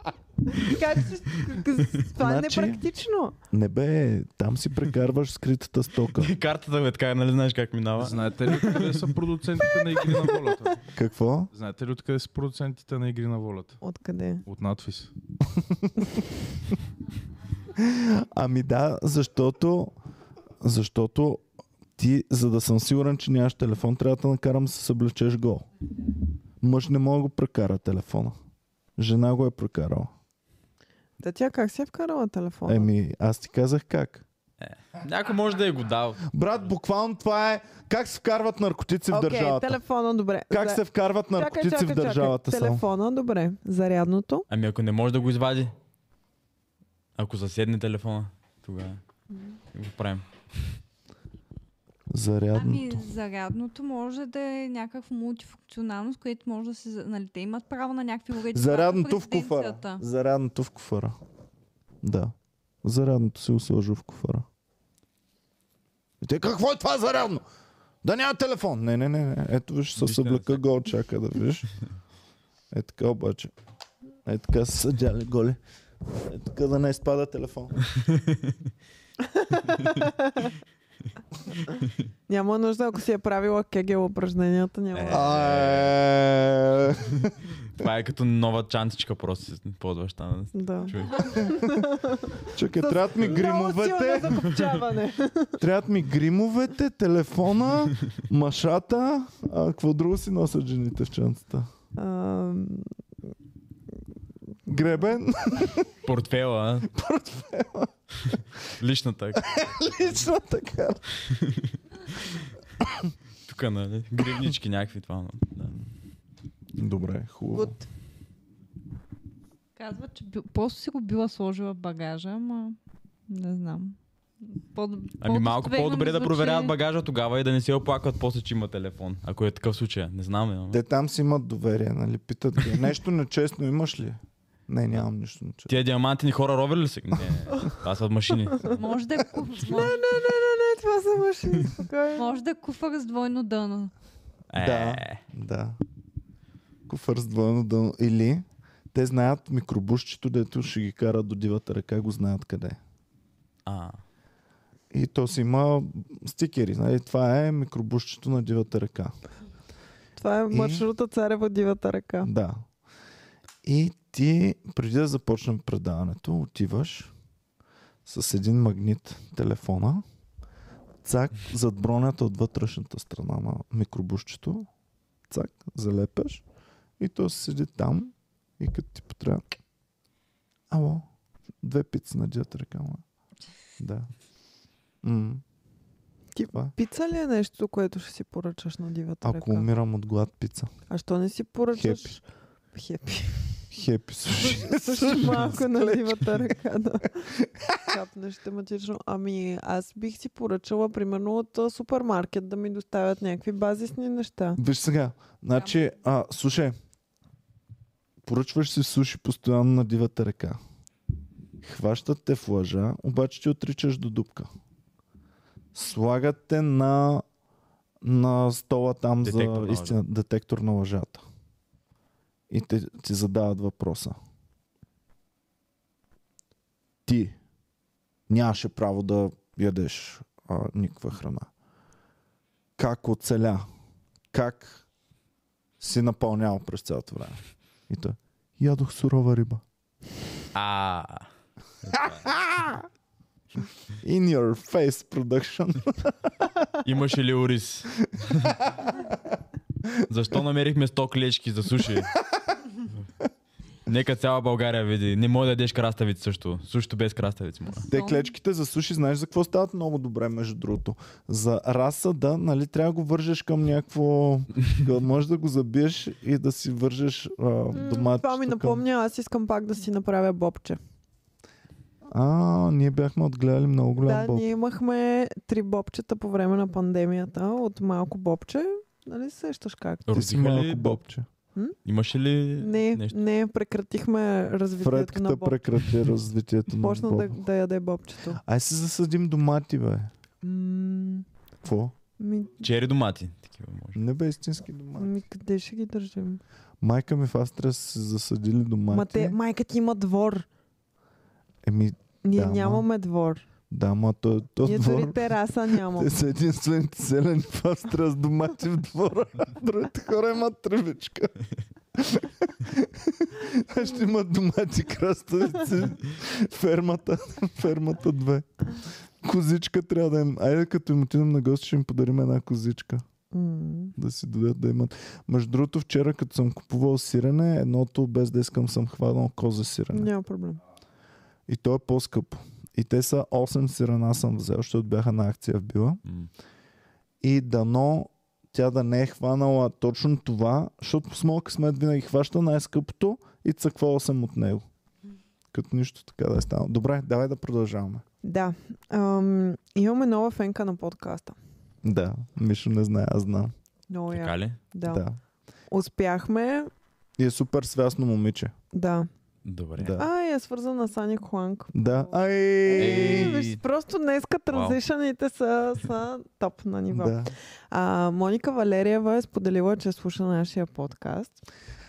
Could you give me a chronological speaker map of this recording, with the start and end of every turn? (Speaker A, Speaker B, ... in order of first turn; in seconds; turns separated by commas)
Speaker A: 0.5-3.4, Speaker B: 2.1-2.8, Speaker B: 3.5-6.3, Speaker C: 6.2-9.1, Speaker D: 8.0-10.9, Speaker C: 9.9-10.3, Speaker B: 10.9-11.5, Speaker D: 11.5-13.8, Speaker A: 13.8-14.4, Speaker D: 14.5-15.1, Speaker B: 15.5-16.2, Speaker B: 17.8-19.9, Speaker B: 20.6-21.4, Speaker B: 22.0-25.7, Speaker B: 26.6-28.4, Speaker B: 29.0-30.1, Speaker A: 31.2-32.9, Speaker B: 32.7-34.2, Speaker C: 34.6-36.7, Speaker B: 36.3-39.8, Speaker A: 39.1-44.5, Speaker B: 40.5-42.9, Speaker C: 44.5-45.7, Speaker C: 47.2-49.0, Speaker A: 49.3-49.6, Speaker C: 49.7-50.2, Speaker B: 52.1-53.1, Speaker E: 52.5-60.0, Speaker B: 58.5-61.1, Speaker B: 62.0-64.5, Speaker B: 66.2-67.4, Speaker B: 68.0-71.7, Speaker C: 70.0-70.6, Speaker B: 72.7-73.5, Speaker B: 74.3-77.8, Speaker C: 78.0-78.3, Speaker A: 79.4-80.5, Speaker A: 82.3-85.3, Speaker C: 84.9-86.0, Speaker B: 85.1-87.3, Speaker C: 87.8-91.5, Speaker A: 90.5-95.6, Speaker B: 91.3-91.5, Speaker B: 92.5-94.7, Speaker B: 95.6-101.7, Speaker A: 102.0-102.9, Speaker B: 104.7-105.9, Speaker C: 106.0-106.9, Speaker B: 106.9-107.9, Speaker C: 108.3-110.2, Speaker B: 109.4-111.0, Speaker C: 111.3-111.7, Speaker C: 113.5-115.8, Speaker B: 116.8-117.8, Speaker A: 117.6-117.8, Speaker E: 119.8-122.8, Speaker E: 123.3-126.7, Speaker C: 125.2-130.8, Speaker B: 130.7-135.7, Speaker C: 135.7-138.8, Speaker E: 138.8-140.0, Speaker A: 139.7-142.4, Speaker E: 142.2-143.9, Speaker C: 144.5-145.2, Speaker B: 144.6-145.8, Speaker B: 146.9-152.8, Speaker C: 153.7-154.0, Speaker B: 154.9-159.2, Speaker A: 160.2-162.3, Speaker B: 160.5-160.8, Speaker B: 162.2-162.7, Speaker B: 163.6-167.1, Speaker B: 168.1-170.1, Speaker B: 171.0-174.7, Speaker B: 175.3-176.4, Speaker B: 177.0-179.4, Speaker B: 180.7-181.1, Speaker B: 181.6-183.0, Speaker B: 183.8-184.1, Speaker B: 185.0-185.4, Speaker A: 186.3-189.7, Speaker B: 189.2-190.7, Speaker A: 190.9-193.5, Speaker B: 191.7-192.2, Speaker B: 193.7-196.5, Speaker A: 194.3-197.3, Speaker B: 197.3-197.9, Speaker A: 197.8-204.6, Speaker B: 204.6-206.8, Speaker B: 208.2-210.6, Speaker B: 211.6-214.5, Speaker B: 215.7-217.2, Speaker B: 218.0-221.2, Speaker C: 219.2-220.0, Speaker B: 222.5-224.2, Speaker B: 227.1-227.4, Speaker B: 228.3-231.5, Speaker B: 232.8-233.7, Speaker B: 234.3-234.8, Speaker B: 235.8-239.6, Speaker C: 240.6-241.3, Speaker C: 241.8-242.3, Speaker B: 242.0-242.8, Speaker B: 244.0-246.1, Speaker C: 246.8-248.6, Speaker C: 250.1-252.1, Speaker C: 253.9-257.9, Speaker E: 257.7-258.3, Speaker B: 257.9-268.8, Speaker A: 267.7-270.8, Speaker B: 272.1-274.5, Speaker A: 274.0-280.1, Speaker C: 280.1-281.0, Speaker B: 280.1-281.3, Speaker C: 281.9-283.2, Speaker A: 282.6-285.6, Speaker B: 284.8-287.4, Speaker A: 286.8-288.4, Speaker B: 288.4-290.1, Speaker A: 290.4-291.3, Speaker B: 291.6-291.9, Speaker A: 292.2-292.7, Speaker C: 292.6-294.0, Speaker B: 293.9-295.1, Speaker A: 295.0-296.4, Speaker B: 296.8-299.4, Speaker A: 298.9-300.5, Speaker B: 301.6-302.9, Speaker A: 302.2-303.4, Speaker B: 303.7-311.4, Speaker A: 304.6-306.1, Speaker B: 311.9-323.1, Speaker A: 323.3-323.9, Speaker B: 324.0-330.1, Speaker A: 329.9-330.6, Speaker B: 331.5-336.0, Speaker B: 337.2-344.7, Speaker B: 345.5-348.0, Speaker A: 348.2-351.4, Speaker B: 351.8-353.5, Speaker A: 353.9-355.0, Speaker C: 354.1-354.6, Speaker B: 354.9-355.2, Speaker A: 355.7-356.7, Speaker B: 357.2-358.5, Speaker A: 358.7-359.1, Speaker C: 359.4-360.0, Speaker B: 359.8-360.1, Speaker A: 360.0-367.2, Speaker B: 361.7-363.4, Speaker C: 362.8-363.6, Speaker C: 364.5-364.8, Speaker B: 366.9-367.3, Speaker A: 367.7-371.4